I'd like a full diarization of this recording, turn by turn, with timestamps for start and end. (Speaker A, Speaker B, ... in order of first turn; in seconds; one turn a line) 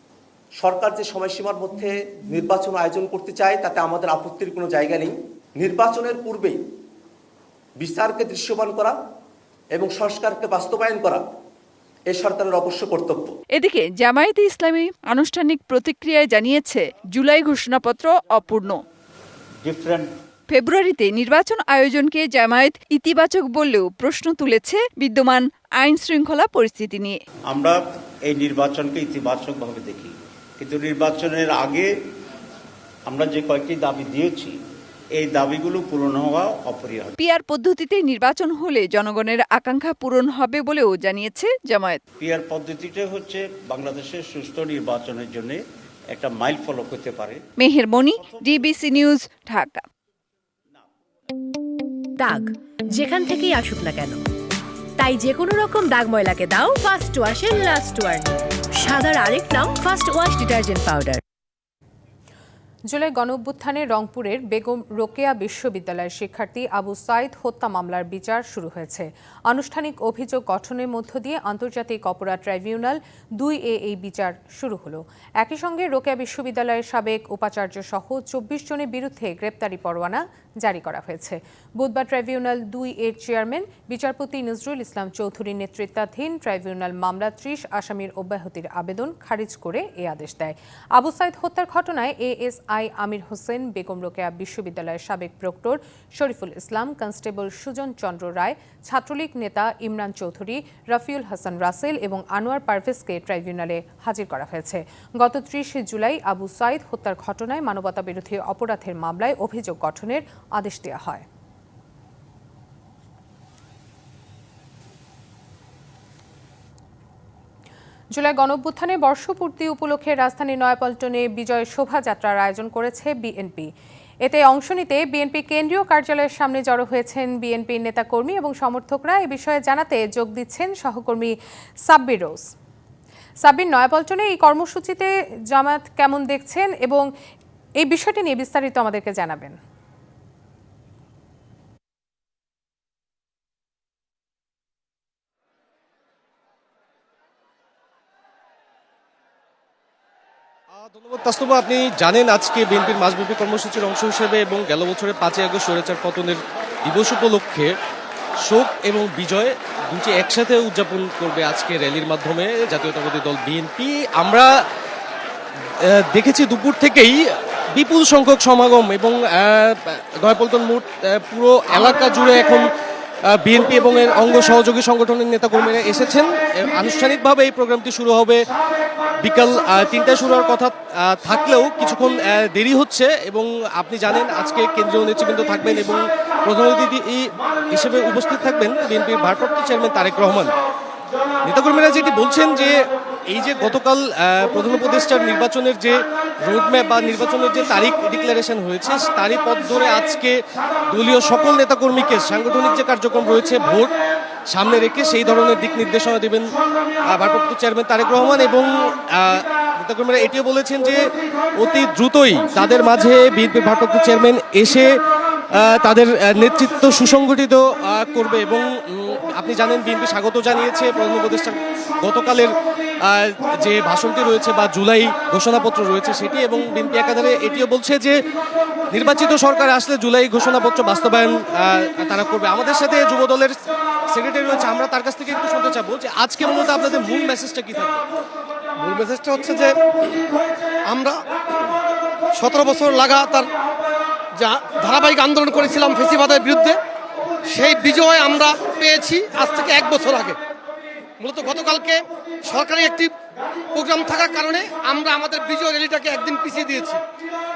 Speaker A: 0.6-6.6
Speaker A: 7.8-9.0
Speaker A: 9.7-11.2
Speaker A: 12.1-13.3
Speaker B: 13.6-18.8
Speaker C: 19.6-20.1
Speaker B: 20.5-27.1
Speaker C: 27.5-31.9
Speaker C: 33.1-34.5
Speaker C: 35.2-37.1
Speaker B: 37.2-42.0
Speaker C: 42.2-45.6
Speaker C: 46.1-47.4
Speaker B: 47.6-49.8
Speaker C: 48.2-48.5
Speaker D: 52.1-54.2
Speaker D: 55.0-61.2
Speaker E: 62.9-111.2
Speaker E: 118.2-123.7
Speaker E: 124.2-131.3
Speaker E: 131.9-132.5
Speaker E: 133.4-137.1
Speaker E: 137.8-139.6
Speaker F: 150.7-157.7
Speaker F: 158.4-164.5
Speaker F: 165.8-167.2
Speaker F: 167.7-172.7
Speaker F: 173.3-178.4
Speaker F: 179.2-190.5
Speaker F: 191.4-203.9
Speaker F: 204.5-206.6
Speaker F: 207.1-214.9
Speaker F: 215.6-228.2
Speaker F: 228.9-233.6
Speaker F: 234.1-238.0
Speaker G: 238.8-239.8
Speaker G: 240.9-241.2
Speaker G: 242.3-243.5
Speaker G: 244.3-246.8
Speaker G: 247.5-250.4
Speaker G: 251.2-253.1
Speaker G: 253.7-257.0